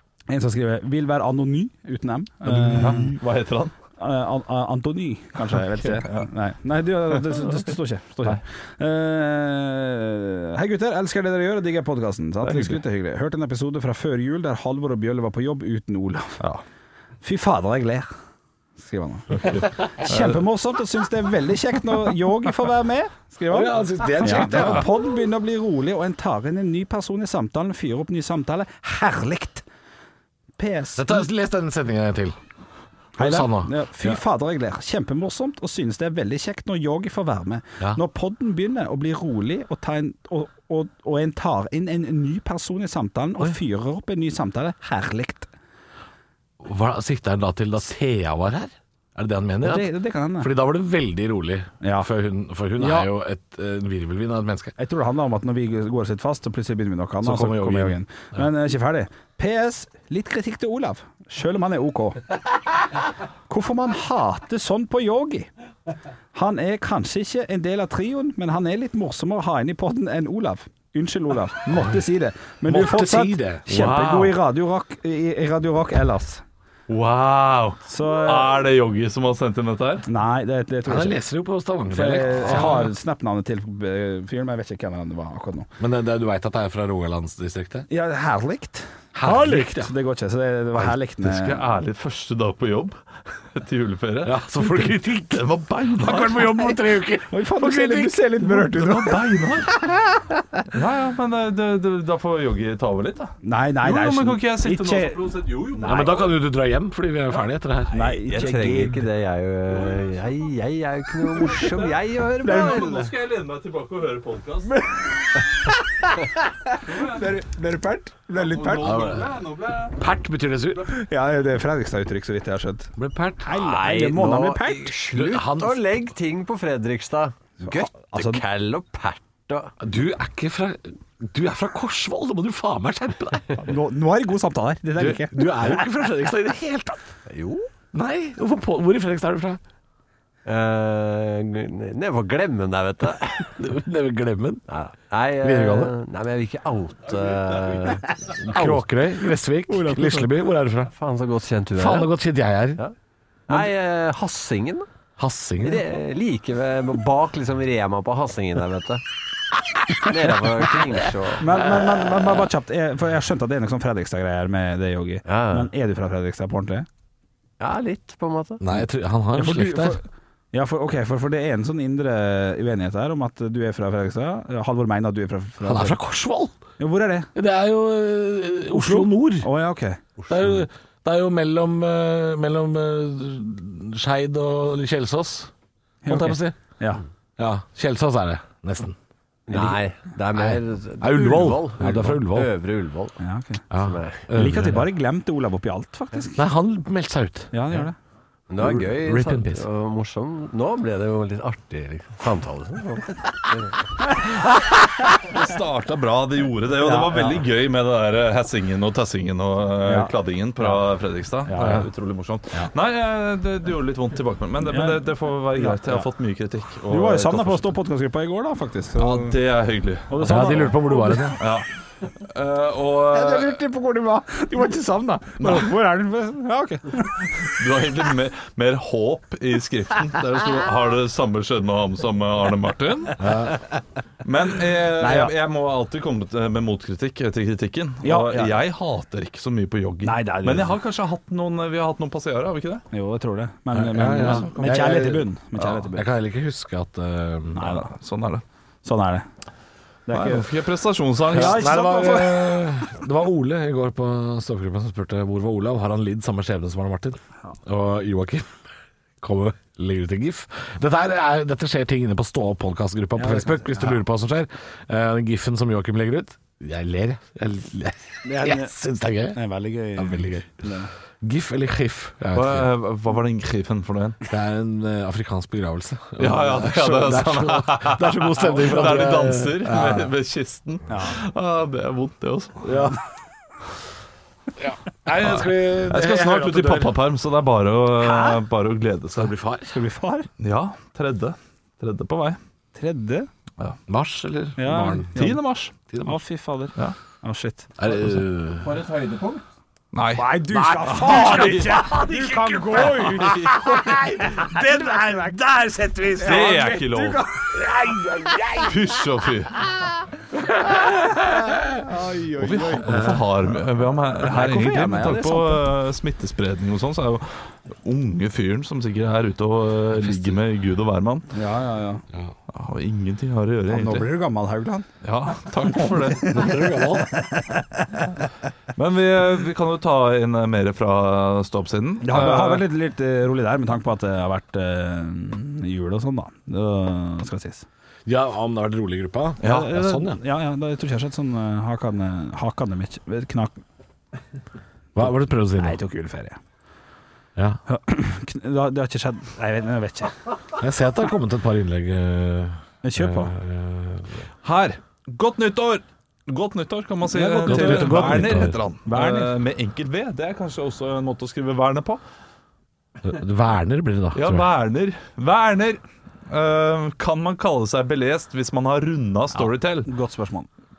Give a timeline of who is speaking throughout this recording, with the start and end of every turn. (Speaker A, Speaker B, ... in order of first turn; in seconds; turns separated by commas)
Speaker A: 0.3-3.2, Speaker B: 2.5-3.8, Speaker A: 4.0-16.4, Speaker B: 5.9-6.3, Speaker B: 7.2-7.7, Speaker B: 12.4-12.8, Speaker A: 17.2-18.1, Speaker A: 18.8-29.6, Speaker B: 19.4-20.4, Speaker C: 23.5-24.9, Speaker A: 30.6-31.3, Speaker C: 31.0-32.4, Speaker C: 33.2-34.2, Speaker A: 33.2-45.5, Speaker C: 46.6-54.8, Speaker A: 49.6-50.5, Speaker A: 51.8-52.1, Speaker A: 52.8-53.1, Speaker A: 54.8-62.2, Speaker C: 57.2-58.4, Speaker A: 63.5-65.5, Speaker A: 66.3-76.4, Speaker C: 72.7-73.7, Speaker B: 73.7-74.3, Speaker B: 76.9-80.1, Speaker A: 77.9-78.7, Speaker A: 80.1-81.2, Speaker C: 80.9-82.8, Speaker A: 81.9-85.7, Speaker B: 82.5-82.9, Speaker C: 85.8-87.9, Speaker A: 87.9-91.6, Speaker C: 89.1-89.9, Speaker B: 91.2-96.6, Speaker C: 94.2-98.2, Speaker A: 97.3-99.2, Speaker B: 98.4-99.8, Speaker A: 99.9-100.6, Speaker B: 100.7-106.3, Speaker A: 103.4-106.1, Speaker C: 105.9-108.2, Speaker A: 107.9-109.1, Speaker D: 108.2-112.9, Speaker B: 108.3-108.6, Speaker B: 111.3-114.8, Speaker A: 112.4-113.1, Speaker A: 115.3-115.7, Speaker A: 116.7-119.1, Speaker B: 116.8-117.3, Speaker B: 118.3-120.0, Speaker C: 118.8-119.3, Speaker C: 119.9-120.9, Speaker A: 120.9-125.0, Speaker C: 123.0-123.6, Speaker D: 123.5-129.7, Speaker C: 125.1-126.1, Speaker A: 127.6-128.4, Speaker C: 129.8-133.6, Speaker A: 133.6-135.8, Speaker C: 135.0-137.0, Speaker D: 137.3-137.7, Speaker C: 137.9-139.6, Speaker D: 140.4-143.5, Speaker C: 143.5-144.7, Speaker D: 144.7-148.8, Speaker C: 145.4-145.9, Speaker C: 148.4-150.9, Speaker A: 149.7-150.3, Speaker D: 150.9-152.1, Speaker C: 151.8-152.8, Speaker D: 153.5-154.9, Speaker C: 155.2-155.8, Speaker D: 155.6-159.0, Speaker D: 160.0-161.6, Speaker A: 161.4-166.9, Speaker D: 165.3-165.7, Speaker D: 167.6-168.6, Speaker C: 168.6-170.0, Speaker A: 169.4-176.0, Speaker C: 175.6-176.6, Speaker A: 176.8-177.3, Speaker C: 177.3-179.5, Speaker A: 178.7-180.0, Speaker D: 180.2-180.5, Speaker C: 180.3-185.5, Speaker A: 186.1-187.0, Speaker C: 186.1-186.6, Speaker C: 187.4-189.0, Speaker D: 189.5-193.2, Speaker C: 189.5-189.8, Speaker C: 190.3-192.5, Speaker A: 193.2-193.7, Speaker C: 193.7-194.9, Speaker D: 193.8-194.2, Speaker A: 194.3-196.5, Speaker C: 196.4-197.5, Speaker A: 197.5-198.0, Speaker D: 198.5-203.8, Speaker C: 198.6-199.7, Speaker B: 205.1-217.7, Speaker A: 206.8-207.4, Speaker A: 209.8-210.8, Speaker A: 211.4-211.9, Speaker A: 214.7-216.1, Speaker A: 216.9-219.3, Speaker B: 219.0-220.7, Speaker A: 220.1-221.4, Speaker C: 220.2-221.4, Speaker B: 221.4-223.6, Speaker A: 223.1-227.2, Speaker B: 225.4-225.7, Speaker B: 227.4-233.2, Speaker C: 233.2-233.6, Speaker B: 234.2-242.8, Speaker A: 235.0-235.3, Speaker A: 238.0-238.6, Speaker A: 240.0-240.7, Speaker A: 242.9-246.1, Speaker C: 243.7-245.3, Speaker B: 244.1-245.0, Speaker C: 245.9-247.7, Speaker A: 247.6-247.9, Speaker B: 247.6-248.4, Speaker A: 248.8-249.3, Speaker A: 250.1-250.5, Speaker B: 250.1-251.7, Speaker A: 251.3-253.0, Speaker C: 251.3-258.5, Speaker C: 259.2-269.4, Speaker A: 263.2-264.0, Speaker A: 268.2-268.7, Speaker A: 269.3-270.9, Speaker C: 269.9-270.7, Speaker C: 271.2-272.7, Speaker B: 272.3-274.2, Speaker C: 274.3-280.1, Speaker B: 276.2-282.7, Speaker A: 280.9-281.2, Speaker C: 282.6-283.0, Speaker A: 282.7-282.9, Speaker C: 284.6-286.9, Speaker B: 285.2-289.4, Speaker A: 288.0-288.4, Speaker C: 289.1-289.8, Speaker A: 289.7-290.3, Speaker B: 290.4-292.4, Speaker A: 292.8-293.3, Speaker C: 293.9-295.1, Speaker A: 294.6-295.4, Speaker B: 295.1-295.7, Speaker C: 295.9-296.2, Speaker A: 296.0-297.7, Speaker C: 297.8-298.8, Speaker D: 298.6-299.4, Speaker B: 299.9-301.9, Speaker A: 300.1-307.7, Speaker C: 300.5-306.5, Speaker B: 302.9-303.8, Speaker B: 306.2-307.3, Speaker C: 307.5-308.8, Speaker B: 308.6-309.6, Speaker C: 310.5-311.7, Speaker A: 311.8-313.6, Speaker B: 312.4-321.3, Speaker C: 312.8-313.2, Speaker A: 314.2-315.6, Speaker C: 320.0-320.4, Speaker A: 321.3-322.0, Speaker B: 322.5-324.1, Speaker A: 323.7-324.9, Speaker B: 325.0-326.5, Speaker C: 326.2-327.1, Speaker A: 327.1-327.6, Speaker B: 328.8-332.7, Speaker A: 332.0-337.6, Speaker C: 338.1-340.2, Speaker B: 339.4-339.8, Speaker A: 339.4-343.6, Speaker C: 345.0-345.8, Speaker A: 345.6-346.4, Speaker A: 347.7-350.2, Speaker C: 350.6-354.2, Speaker A: 352.8-353.3, Speaker B: 354.4-362.0, Speaker A: 357.1-359.4, Speaker C: 357.5-358.6, Speaker C: 363.0-364.5, Speaker B: 364.1-369.9, Speaker A: 369.3-370.5